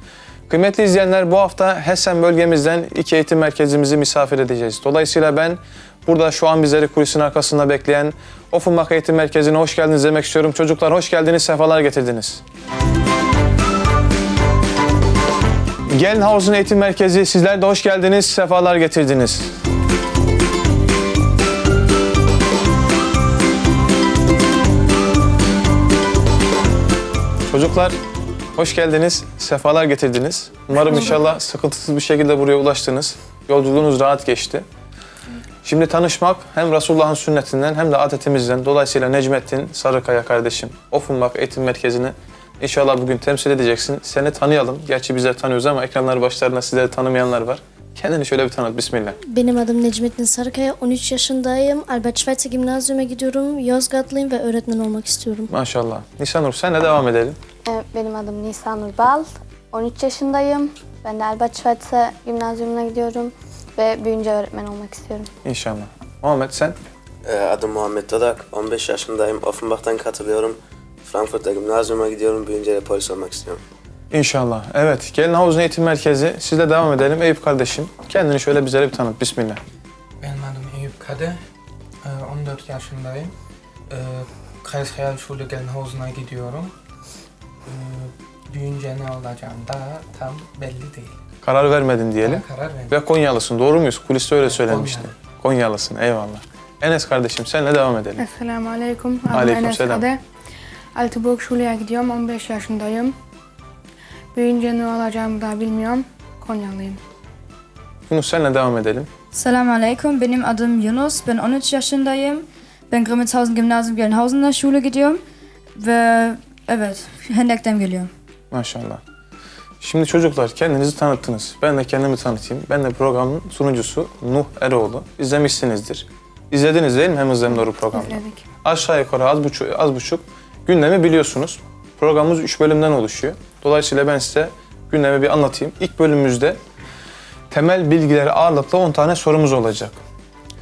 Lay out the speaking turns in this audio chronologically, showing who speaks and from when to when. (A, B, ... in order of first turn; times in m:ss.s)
0:00.5-0:12.4 A
0:15.9-0:19.5 A
0:27.5-0:28.0 A
0:28.6-0:34.6 A
0:35.6-0:49.2 A
0:49.2-0:55.5 B
0:55.5-0:57.4 A
0:57.6-1:05.3 C
1:05.4-1:06.8 A
1:07.2-1:13.6 D
1:14.1-1:19.6 A
1:20.2-1:21.4 E
1:22.0-1:23.3 E
1:23.9-1:26.7 E
1:27.6-1:31.1 E
1:31.4-1:38.2 A
1:32.2-1:33.0 E
1:34.4-1:35.1 E
1:38.2-1:40.2 F
1:39.3-1:40.1 A
1:40.9-1:43.2 F
1:44.3-1:47.0 F
1:48.1-1:49.1 A
1:49.3-1:55.2 G
1:55.7-1:58.1 G
1:58.5-1:59.0 A
1:59.8-2:16.6 A
2:07.9-2:08.4 F
2:17.5-2:20.0 A